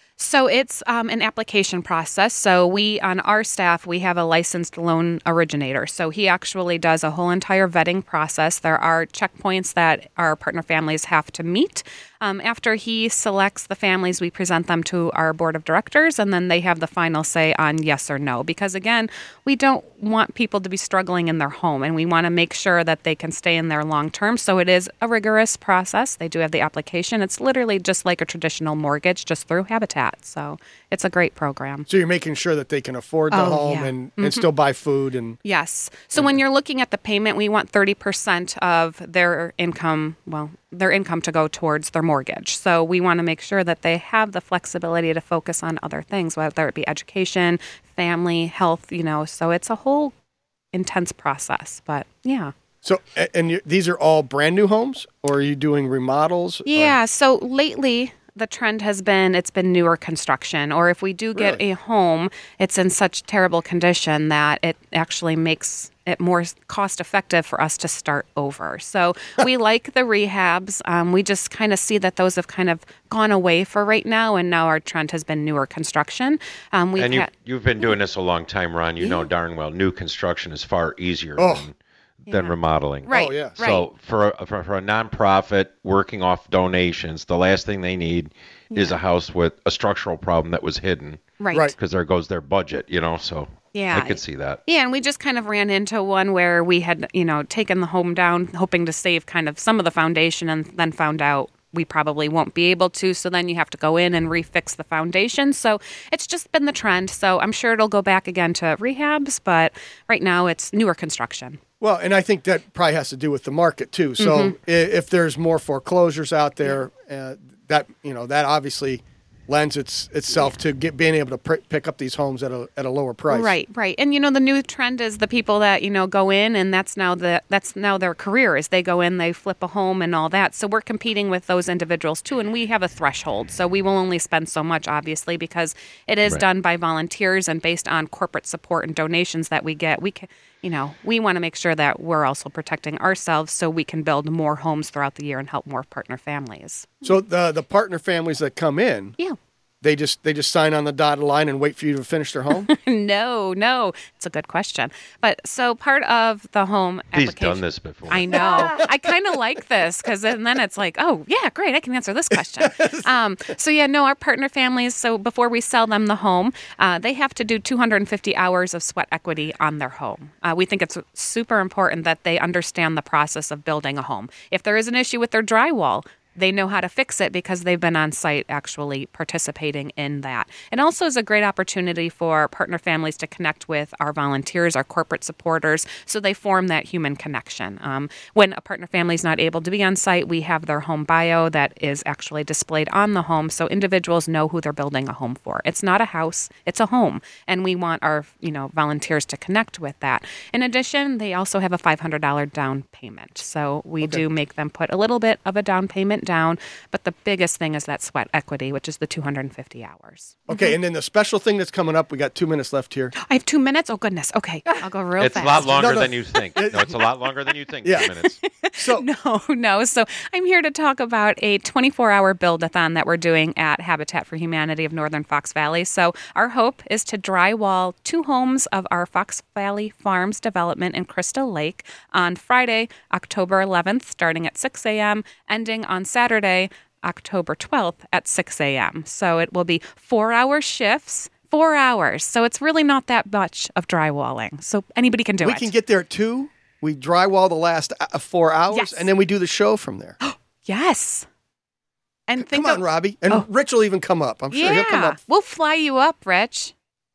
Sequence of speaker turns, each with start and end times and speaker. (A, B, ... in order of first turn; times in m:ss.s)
0:00.2-0:31.9 A
0:31.9-0:35.4 B
0:33.3-0:34.5 A
0:35.4-0:50.1 A
0:50.7-0:52.5 A
0:52.8-0:57.0 B
0:56.7-1:17.3 A
1:01.4-1:01.6 B
1:17.0-1:31.2 C
1:21.4-1:21.6 B
1:22.3-1:23.9 A
1:23.1-1:23.6 B
1:28.7-1:29.0 A
1:31.4-1:31.7 A
1:31.8-1:34.6 C
1:33.7-1:51.6 A
1:51.8-2:03.6 B
1:54.2-1:54.6 A
2:03.3-2:27.2 A
2:27.0-2:29.2 B
2:29.8-2:32.7 B
2:32.7-3:30.7 A
2:37.1-2:38.4 C
2:38.5-2:38.8 B
2:42.3-2:43.1 B
3:30.5-3:33.1 B
3:33.2-3:36.0 A
3:35.2-3:38.4 C
3:35.7-3:37.0 B
3:37.8-3:38.1 B
3:38.5-4:05.7 A
3:38.8-3:39.1 B
4:05.4-4:10.2 B
4:08.7-4:09.1 A
4:10.2-4:11.3 A
4:12.3-4:13.5 A
4:12.4-4:15.2 B
4:14.5-4:16.7 A